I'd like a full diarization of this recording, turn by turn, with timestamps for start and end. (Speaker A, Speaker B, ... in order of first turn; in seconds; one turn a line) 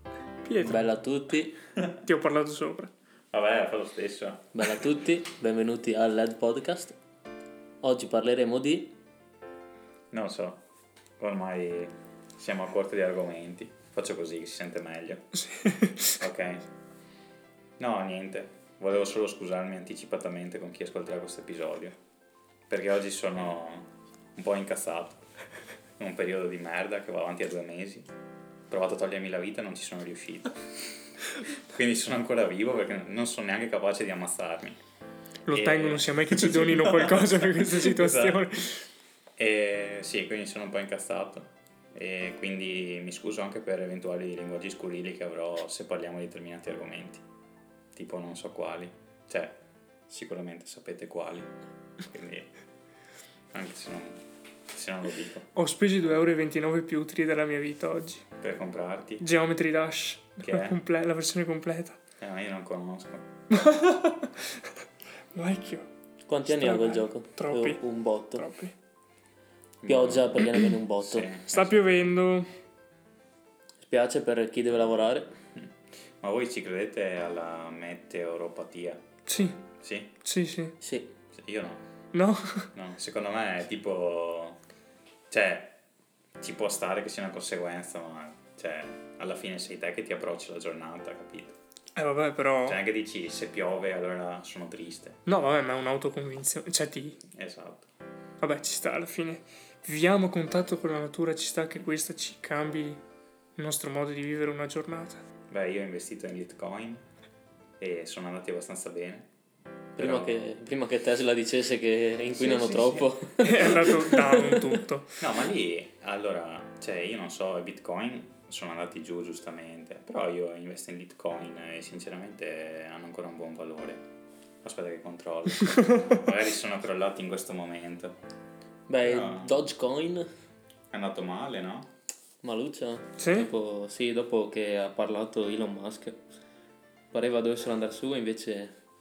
Speaker A: 0.5-0.9
Speaker B: 0.6-1.6
Speaker A: 2.0-2.9
Speaker C: 3.3-4.6
Speaker B: 4.5-7.0
Speaker B: 7.8-8.9
Speaker C: 10.1-10.6
Speaker C: 11.2-15.3
Speaker A: 15.4-16.2
Speaker C: 16.2-16.6
Speaker C: 17.8-22.0
Speaker C: 22.7-25.2
Speaker C: 26.0-28.1
Speaker C: 28.7-34.8
Speaker A: 35.5-38.8
Speaker C: 35.5-38.5
Speaker C: 39.4-47.2
Speaker C: 47.9-52.5
Speaker C: 53.5-55.5
Speaker A: 55.5-58.2
Speaker C: 58.4-59.2
Speaker A: 59.2-62.0
Speaker C: 60.4-60.8
Speaker C: 62.2-63.3
Speaker A: 63.5-64.7
Speaker A: 65.3-65.9
Speaker B: 66.3-68.5
Speaker A: 66.5-67.8
Speaker A: 68.3-68.7
Speaker C: 69.8-70.5
Speaker B: 69.9-71.3
Speaker C: 71.0-71.8
Speaker A: 71.5-72.5
Speaker B: 73.8-75.3
Speaker C: 75.6-79.0
Speaker A: 79.3-79.6
Speaker C: 79.8-80.1
Speaker A: 80.2-80.8
Speaker B: 80.8-81.1
Speaker C: 81.3-81.8
Speaker A: 82.1-82.7
Speaker C: 82.7-84.6
Speaker C: 85.3-85.8
Speaker C: 86.4-91.6
Speaker A: 92.0-92.8
Speaker C: 92.7-95.2
Speaker A: 95.3-97.2
Speaker C: 97.3-97.9
Speaker A: 98.4-103.0
Speaker A: 103.6-105.2
Speaker C: 105.5-107.1
Speaker C: 107.8-109.3
Speaker B: 110.0-114.8
Speaker C: 110.0-110.5
Speaker C: 112.3-114.1
Speaker A: 113.4-115.2
Speaker C: 115.2-124.0
Speaker C: 124.6-128.2
Speaker B: 128.9-130.3
Speaker C: 129.0-129.6
Speaker C: 130.9-131.9
Speaker B: 132.4-136.2
Speaker A: 133.2-133.5
Speaker B: 137.1-138.8